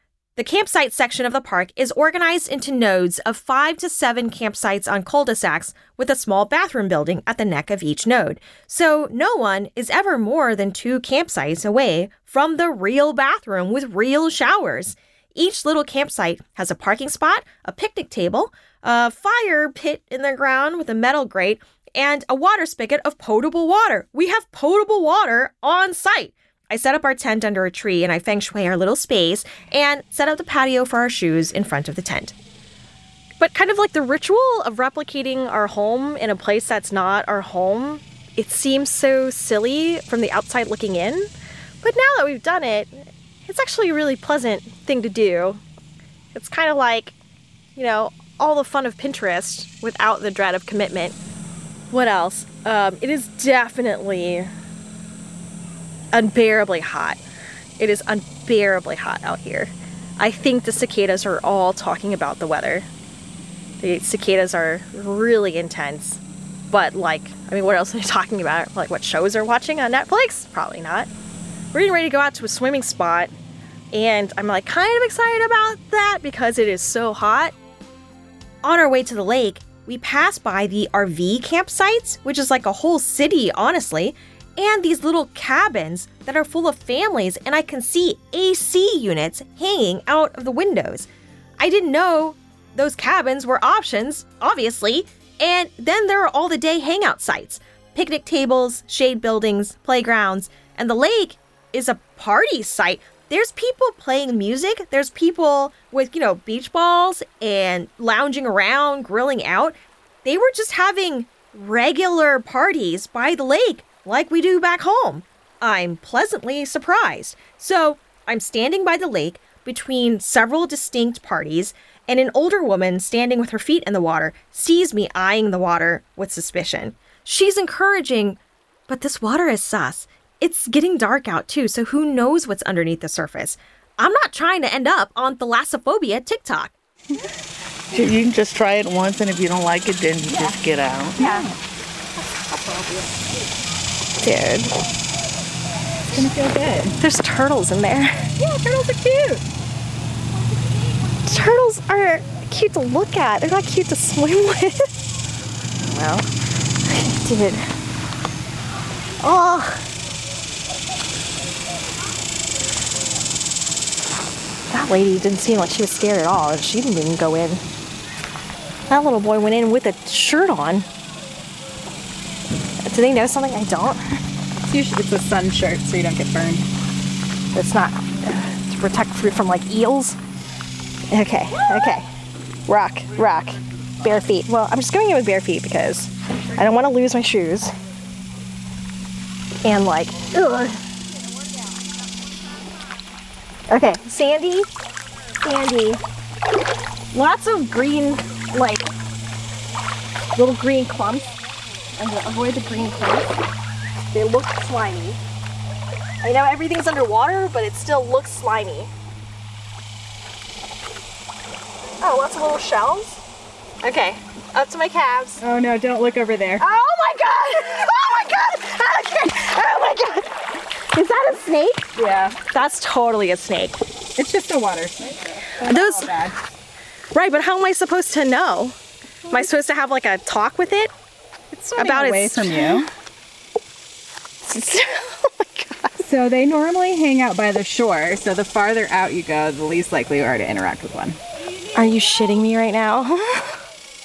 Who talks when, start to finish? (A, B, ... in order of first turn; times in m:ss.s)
0:00.4-0:32.4 A
0:33.4-0:41.3 A
0:41.8-0:45.6 A
0:46.4-0:47.2 A
0:47.8-0:51.2 A
0:51.9-0:54.5 A
0:56.1-0:57.2 A
0:57.8-1:02.9 A
1:03.8-1:11.1 A
1:11.7-1:13.3 A
1:13.9-1:17.5 A
1:18.6-1:31.1 A
1:31.6-2:16.8 A
2:17.9-2:21.3 B
2:20.3-2:20.6 C
2:21.2-2:21.6 C
2:22.5-2:23.1 A
2:24.2-2:24.7 A
2:26.1-2:27.0 C
2:27.0-2:28.3 A
2:28.4-2:29.4 C
2:31.2-2:35.0 A
2:35.9-2:36.3 A
2:36.9-2:37.7 A
2:39.2-2:39.9 A
2:44.7-2:47.6 A
2:48.9-2:50.9 A
2:52.8-2:54.0 A
2:54.6-2:56.7 C
2:57.5-3:00.2 A
3:01.1-3:02.1 A
3:02.7-3:07.7 A
3:09.6-3:10.8 A
3:13.7-3:14.7 A
3:15.4-3:16.0 A
3:17.1-3:18.9 A
3:20.4-3:21.3 A
3:22.0-3:23.3 A
3:24.0-3:25.2 A
3:26.2-3:28.9 A
3:32.0-3:33.2 A
3:33.8-3:35.4 A
3:35.4-3:36.7 C
3:36.6-3:41.9 A
3:42.0-3:42.4 C
3:42.5-3:43.8 A
3:44.2-3:46.4 C
3:45.7-3:46.2 A
3:47.1-3:48.8 A
3:49.3-3:50.9 A
3:51.5-3:52.9 C
3:51.8-3:52.8 A
3:54.4-3:56.0 A
3:56.0-4:01.2 C
4:01.7-4:03.6 A